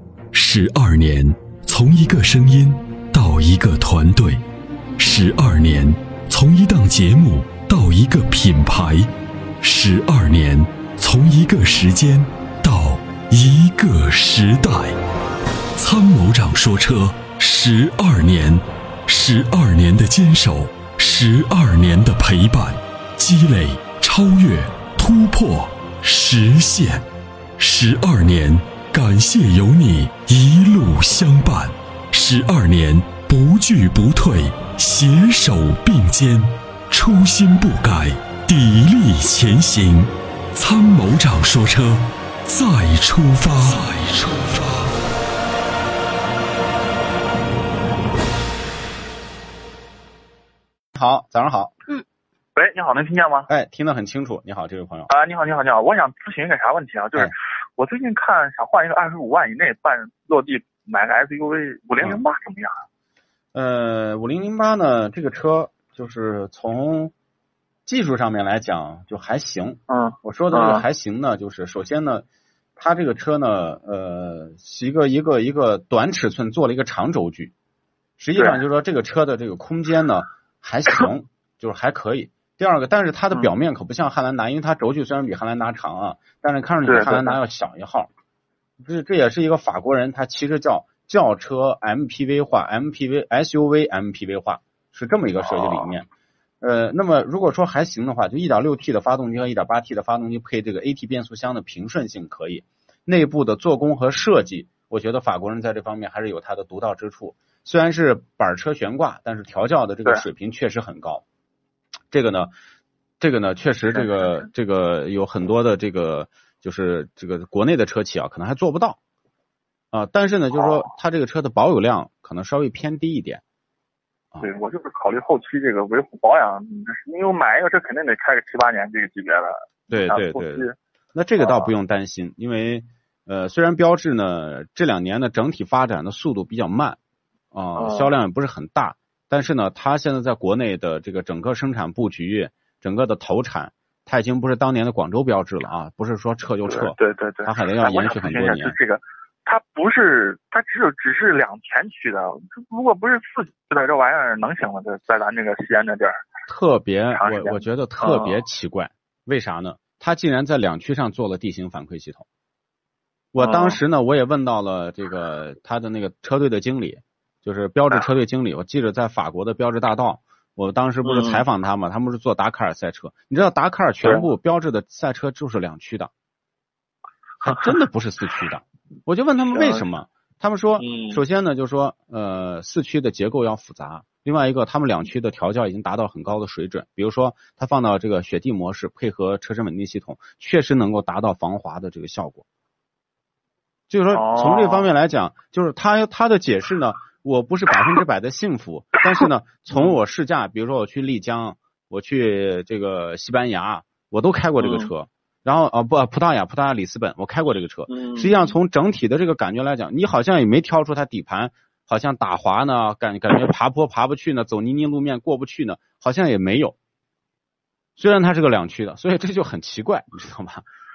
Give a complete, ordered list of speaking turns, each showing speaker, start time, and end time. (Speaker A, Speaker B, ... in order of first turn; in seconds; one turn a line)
Speaker A: 0.3-4.4
Speaker A: 5.0-9.1
Speaker A: 9.6-15.0
Speaker A: 15.8-27.0
Speaker A: 27.6-44.8
Speaker B: 50.9-51.7
Speaker C: 52.5-53.5
Speaker B: 53.5-55.1
Speaker C: 55.1-62.8
Speaker B: 63.5-67.1
Speaker B: 67.8-72.2
Speaker C: 69.9-70.9
Speaker B: 72.8-77.5
Speaker B: 78.2-88.1
Speaker C: 78.3-78.6
Speaker C: 86.8-87.4
Speaker B: 88.8-96.1
Speaker C: 95.4-95.9
Speaker B: 96.6-111.2
Speaker B: 112.1-112.5
Speaker B: 113.2-119.0
Speaker C: 113.9-114.5
Speaker B: 119.9-123.4
Speaker C: 120.5-120.9
Speaker C: 124.4-130.8
Speaker B: 129.9-137.0
Speaker C: 131.4-131.7
Speaker B: 137.5-148.8
Speaker C: 137.8-138.1
Speaker C: 146.7-156.3
Speaker B: 156.5-162.2
Speaker C: 157.1-158.4
Speaker B: 163.3-176.1
Speaker C: 163.4-163.8
Speaker C: 171.0-171.4
Speaker B: 177.4-192.4
Speaker C: 179.5-179.9
Speaker C: 180.8-181.2
Speaker B: 193.9-216.8
Speaker C: 194.1-194.9
Speaker C: 204.6-204.9
Speaker C: 207.9-208.6
Speaker B: 218.0-220.6